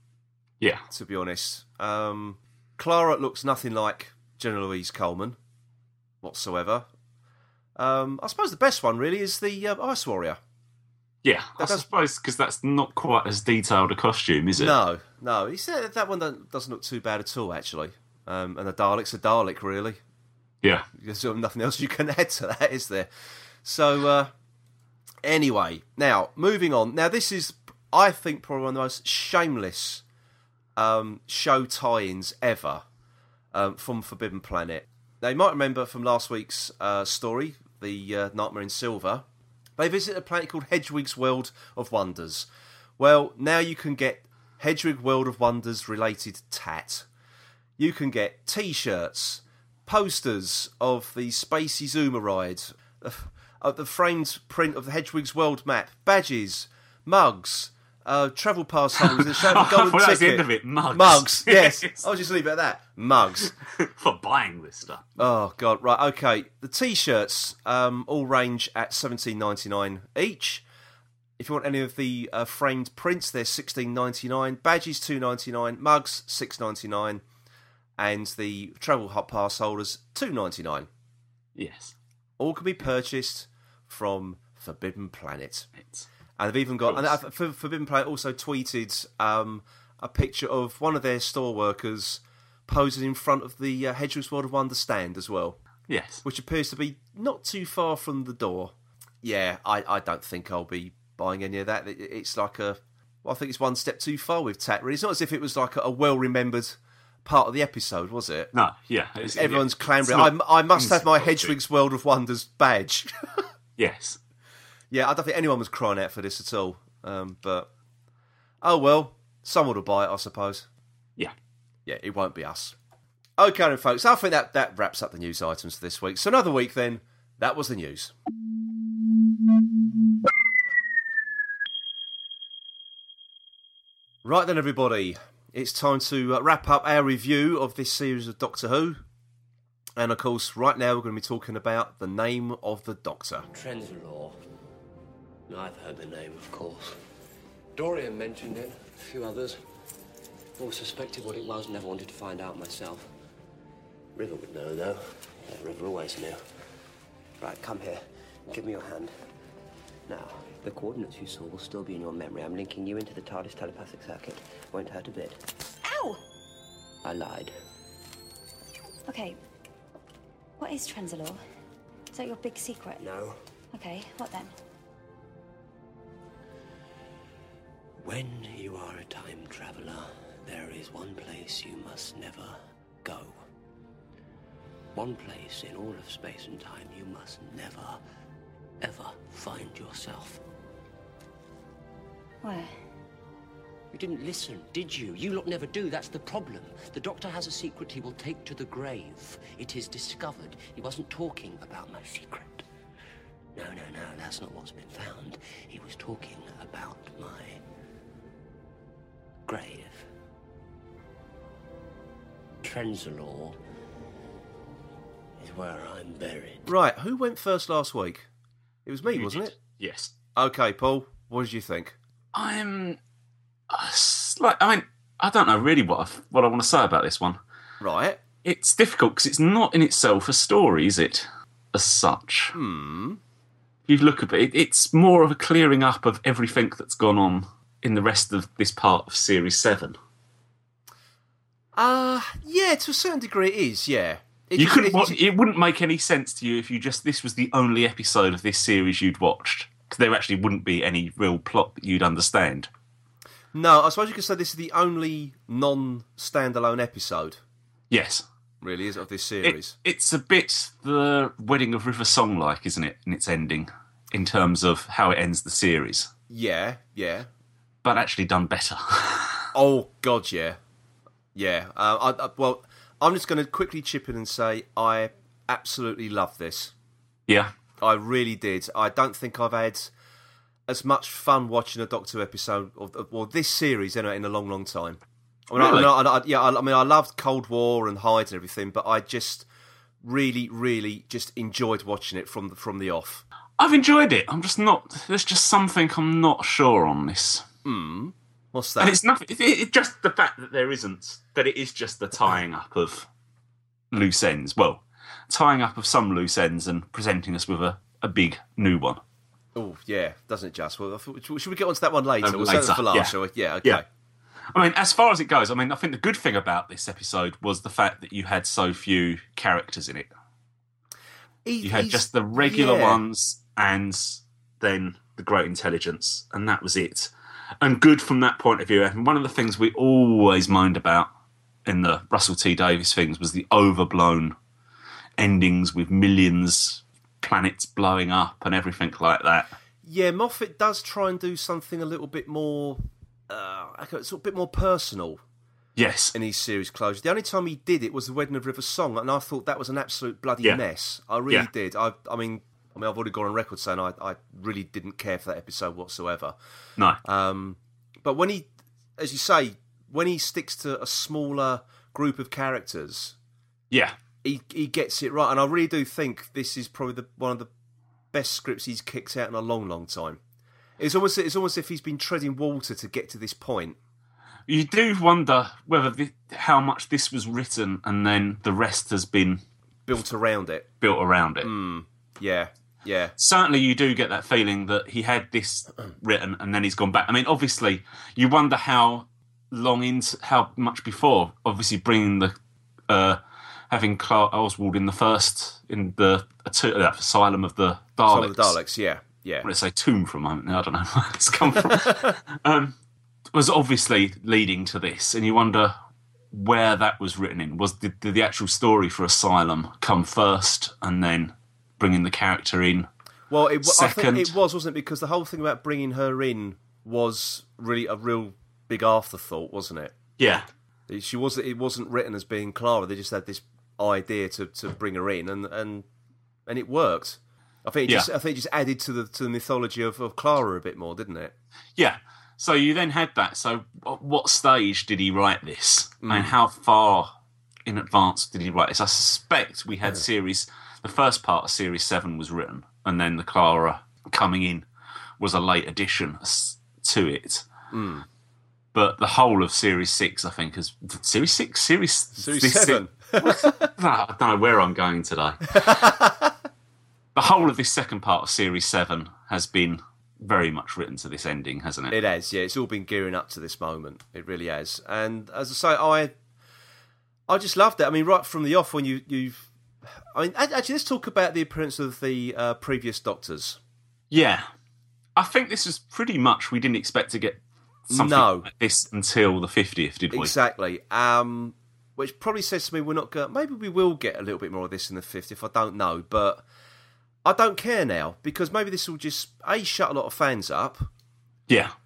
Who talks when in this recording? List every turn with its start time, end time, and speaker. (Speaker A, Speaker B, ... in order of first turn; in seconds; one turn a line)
Speaker A: 0.9-5.4
Speaker A: 6.2-6.9
Speaker A: 7.8-10.4
Speaker B: 11.2-14.7
Speaker A: 11.6-11.8
Speaker A: 14.6-20.0
Speaker A: 20.9-23.1
Speaker A: 23.6-24.3
Speaker A: 25.2-30.0
Speaker A: 30.8-32.8
Speaker A: 33.5-39.2
Speaker A: 39.8-42.5
Speaker A: 43.0-47.0
Speaker A: 47.8-63.5
Speaker B: 59.0-62.0
Speaker B: 63.4-65.1
Speaker A: 65.2-70.6
Speaker A: 71.4-77.2
Speaker A: 78.0-80.9
Speaker B: 81.5-81.9
Speaker A: 82.4-85.7
Speaker B: 85.8-86.1
Speaker A: 86.4-95.6
Speaker B: 86.8-87.2
Speaker B: 95.9-96.2
Speaker A: 96.2-108.5
Speaker B: 108.5-111.5
Speaker A: 109.3-113.5
Speaker B: 113.8-114.2
Speaker A: 114.9-117.7
Speaker A: 118.6-120.7
Speaker A: 121.8-122.7
Speaker A: 123.4-128.1
Speaker A: 134.2-139.0
Speaker A: 140.0-143.4
Speaker C: 143.5-144.3
Speaker C: 145.5-147.0
Speaker C: 147.8-149.6
Speaker C: 150.6-153.1
Speaker C: 154.2-156.4
Speaker C: 157.4-159.1
Speaker C: 160.1-165.4
Speaker D: 165.8-166.2
Speaker C: 167.0-167.5
Speaker D: 169.1-169.4
Speaker D: 170.6-171.4
Speaker D: 172.1-173.0
Speaker C: 173.0-173.4
Speaker D: 173.7-174.5
Speaker C: 178.0-183.4
Speaker C: 184.9-188.0
Speaker C: 188.8-190.4
Speaker D: 192.4-192.7
Speaker C: 193.9-202.6
Speaker C: 203.5-207.6
Speaker C: 209.4-210.1
Speaker C: 212.6-213.6
Speaker C: 215.4-216.7
Speaker A: 216.7-218.3
Speaker A: 218.8-219.5
Speaker B: 219.1-220.1
Speaker A: 220.3-221.9
Speaker B: 222.3-223.0
Speaker B: 223.7-227.4
Speaker A: 227.8-228.2
Speaker B: 228.4-232.5
Speaker A: 232.5-233.2
Speaker B: 233.9-240.0
Speaker A: 241.8-245.2
Speaker B: 244.6-252.7
Speaker A: 253.5-257.4
Speaker B: 257.9-258.2
Speaker A: 258.6-259.8
Speaker B: 259.4-266.1
Speaker A: 266.3-267.3
Speaker B: 267.8-269.5
Speaker A: 269.5-270.6
Speaker A: 271.3-276.7
Speaker B: 277.3-277.5
Speaker A: 277.8-279.9
Speaker A: 280.7-289.4
Speaker B: 285.6-285.9
Speaker A: 290.0-293.2
Speaker B: 293.6-297.4
Speaker A: 297.6-299.0
Speaker B: 298.8-303.1
Speaker B: 303.9-309.0
Speaker A: 309.5-313.8
Speaker B: 312.2-313.1
Speaker B: 314.5-320.1
Speaker A: 321.4-323.0
Speaker B: 321.6-331.1
Speaker B: 331.6-334.3
Speaker B: 335.2-339.5
Speaker A: 339.8-345.2
Speaker B: 345.8-346.1
Speaker A: 346.1-356.3
Speaker A: 357.0-363.1
Speaker B: 363.7-364.0
Speaker A: 364.2-367.5
Speaker A: 368.1-370.2
Speaker A: 370.8-373.8
Speaker B: 374.5-379.4
Speaker A: 379.9-380.7
Speaker B: 380.8-381.5
Speaker A: 381.4-383.1
Speaker B: 383.2-392.3
Speaker B: 392.9-398.5
Speaker A: 398.1-399.5
Speaker B: 399.4-402.8
Speaker B: 403.3-405.7
Speaker B: 406.3-412.9
Speaker A: 413.3-419.9
Speaker B: 413.6-414.3
Speaker B: 420.2-420.4
Speaker A: 420.9-425.9
Speaker A: 426.5-431.3
Speaker B: 431.8-437.1
Speaker A: 436.0-436.3
Speaker B: 437.6-444.7
Speaker B: 445.2-447.5
Speaker A: 447.7-448.1
Speaker B: 448.7-455.9
Speaker A: 452.2-453.7
Speaker A: 455.5-456.3
Speaker B: 457.1-461.9
Speaker A: 461.9-466.1
Speaker A: 467.3-469.5
Speaker A: 470.1-473.6
Speaker B: 474.1-474.5
Speaker B: 475.1-480.3
Speaker A: 477.9-478.5
Speaker A: 480.1-486.4
Speaker A: 487.2-490.9
Speaker B: 491.5-491.7